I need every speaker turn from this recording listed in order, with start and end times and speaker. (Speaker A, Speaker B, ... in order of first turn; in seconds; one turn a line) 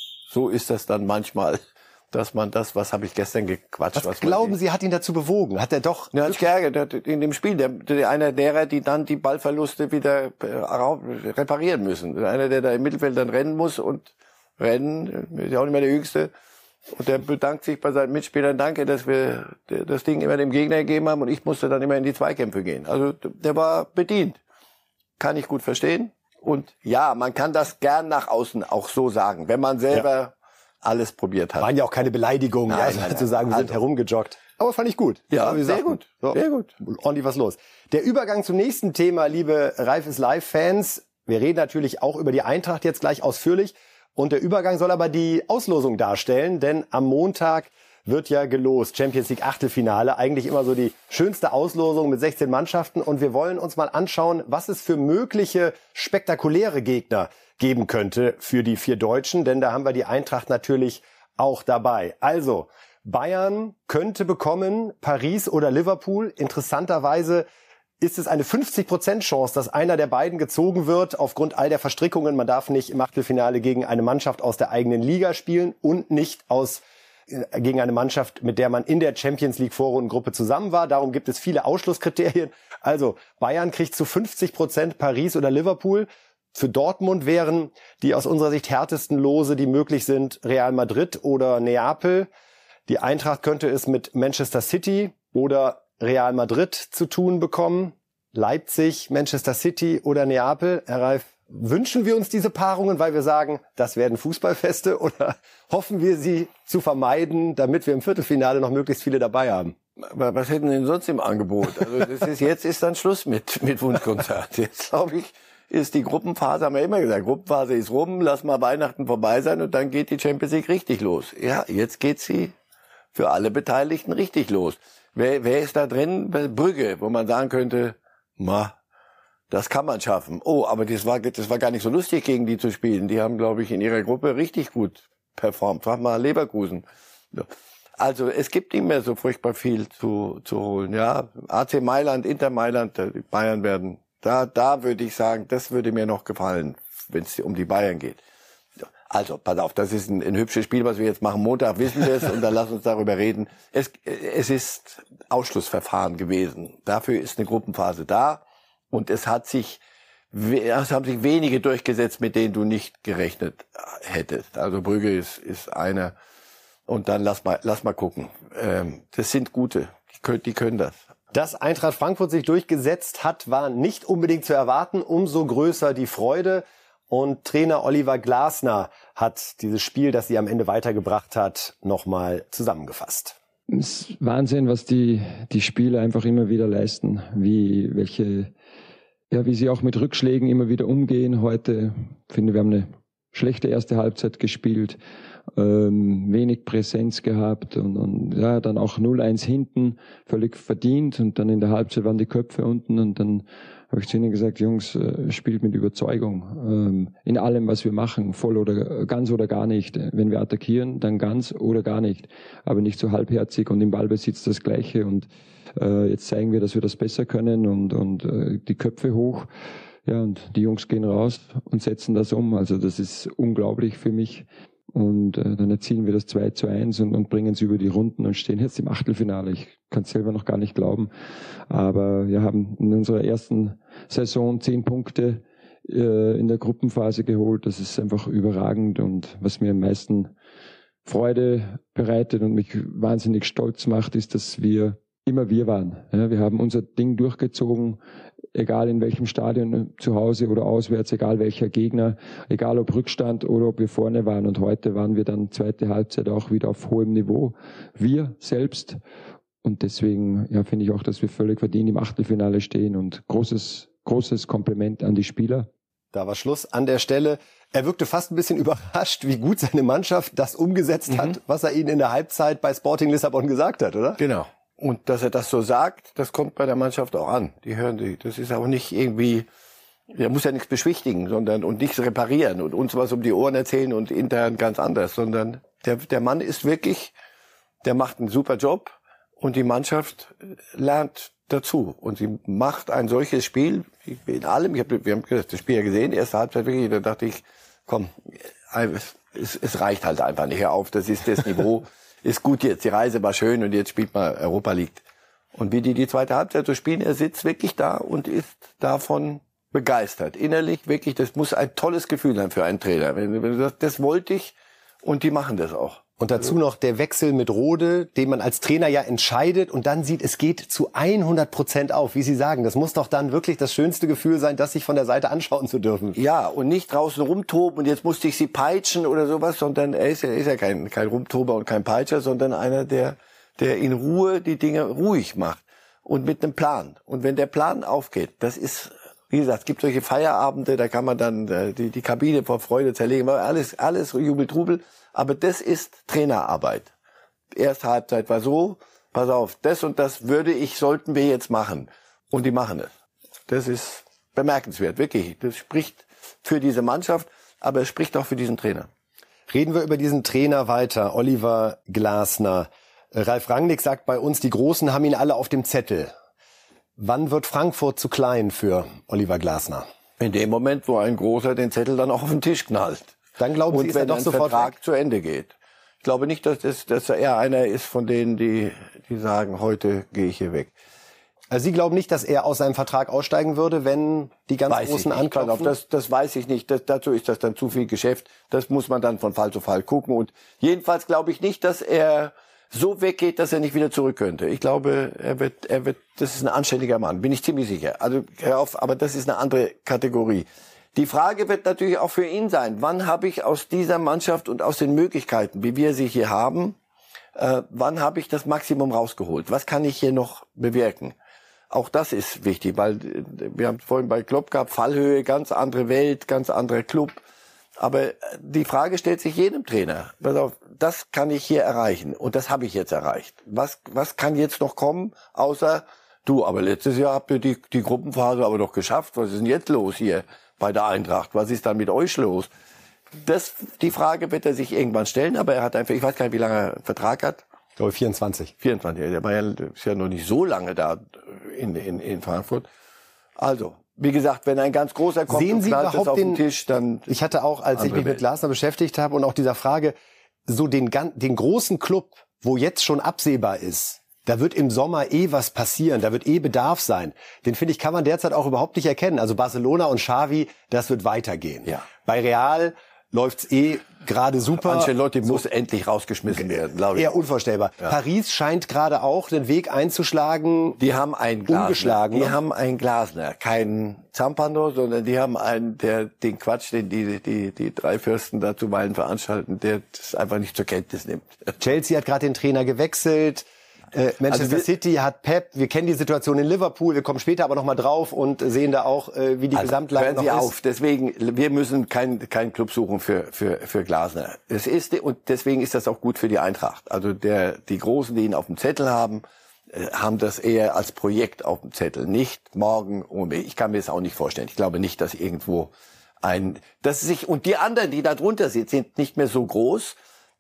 Speaker A: 0.3-4.6
Speaker B: 4.0-6.4
Speaker A: 6.1-16.3
Speaker A: 16.9-24.4
Speaker A: 25.2-31.7
Speaker B: 31.6-67.5
Speaker A: 32.7-33.7
Speaker A: 35.3-36.7
Speaker B: 68.0-92.3
Speaker B: 92.9-109.8
Speaker A: 110.0-122.5
Speaker A: 123.1-128.8
Speaker A: 129.5-148.2
Speaker A: 149.1-159.8
Speaker A: 160.3-166.2
Speaker A: 166.9-171.0
Speaker B: 171.3-183.4
Speaker C: 183.7-188.5
Speaker C: 189.3-195.0
Speaker C: 195.5-219.5
Speaker C: 220.1-231.1
Speaker C: 231.7-240.3
Speaker C: 241.1-248.0
Speaker C: 248.5-259.0
Speaker C: 259.6-265.7
Speaker B: 266.1-274.2
Speaker A: 274.2-279.5
Speaker A: 280.1-287.1
Speaker A: 287.8-298.1
Speaker A: 298.7-305.0
Speaker A: 305.6-316.0
Speaker B: 316.2-326.2
Speaker A: 326.1-346.9
Speaker A: 347.5-352.9
Speaker A: 353.5-358.9
Speaker B: 359.5-366.1
Speaker B: 367.0-369.9
Speaker A: 370.2-373.2
Speaker B: 373.4-374.7
Speaker A: 373.7-380.7
Speaker B: 381.5-385.8
Speaker A: 384.7-406.8
Speaker A: 407.4-411.1
Speaker A: 411.7-417.2
Speaker A: 417.8-432.5
Speaker A: 433.2-437.4
Speaker B: 437.8-438.5
Speaker A: 438.6-442.7
Speaker A: 443.4-447.2
Speaker B: 445.3-446.4
Speaker B: 447.1-449.9
Speaker A: 447.7-448.2
Speaker B: 450.5-465.4
Speaker A: 464.6-467.2
Speaker B: 466.9-470.8
Speaker A: 470.8-481.5
Speaker B: 471.5-472.4
Speaker B: 481.6-490.5
Speaker A: 484.3-484.7
Speaker A: 489.5-510.0